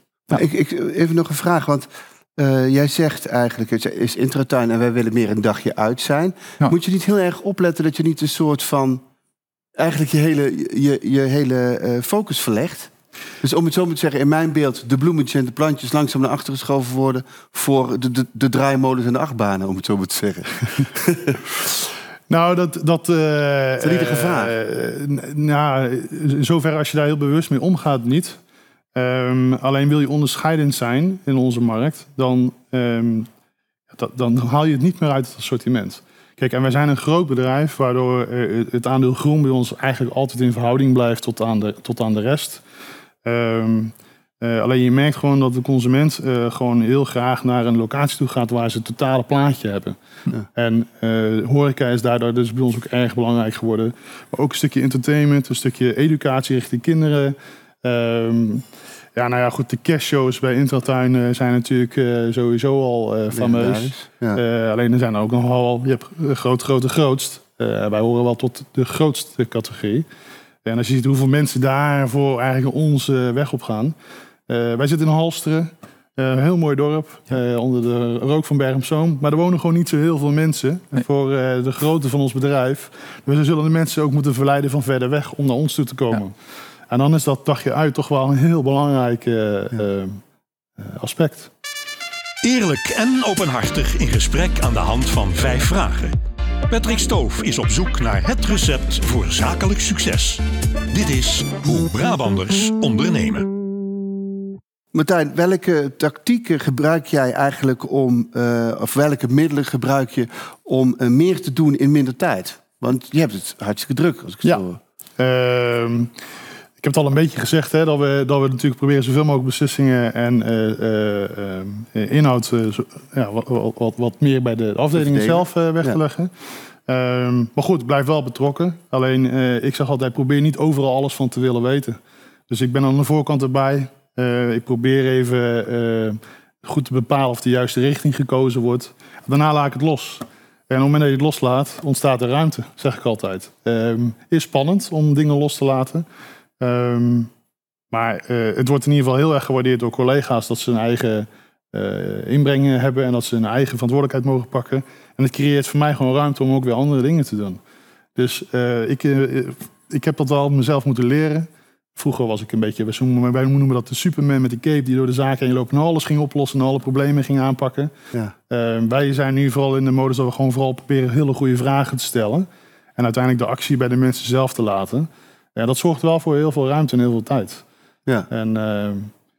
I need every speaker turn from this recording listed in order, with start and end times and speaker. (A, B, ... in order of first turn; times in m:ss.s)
0:00.3-0:09.0 A
0:09.8-0:12.9 A
0:13.4-0:21.4 A
0:22.3-0:28.4 B
0:23.8-0:24.6 A
0:29.0-0:33.3 B
0:33.9-0:42.6 B
0:43.2-0:50.0 B
0:50.6-0:58.6 B
0:59.2-1:10.1 B
1:03.3-1:04.4 A
1:10.6-1:14.0 B
1:14.5-1:26.4 B
1:26.9-1:30.2 B
1:30.8-1:31.5 B
1:32.4-1:36.2 C
1:36.7-1:43.5 C
1:44.9-1:54.8 A
1:55.2-1:56.1 B
1:56.8-2:06.3 B
2:05.0-2:06.0 A
2:06.9-2:12.0 B
2:12.5-2:26.0 B
2:26.6-2:27.3 B
2:27.9-2:37.6 B
2:38.2-2:47.9 B
2:48.5-2:57.6 B
2:58.3-2:59.1 B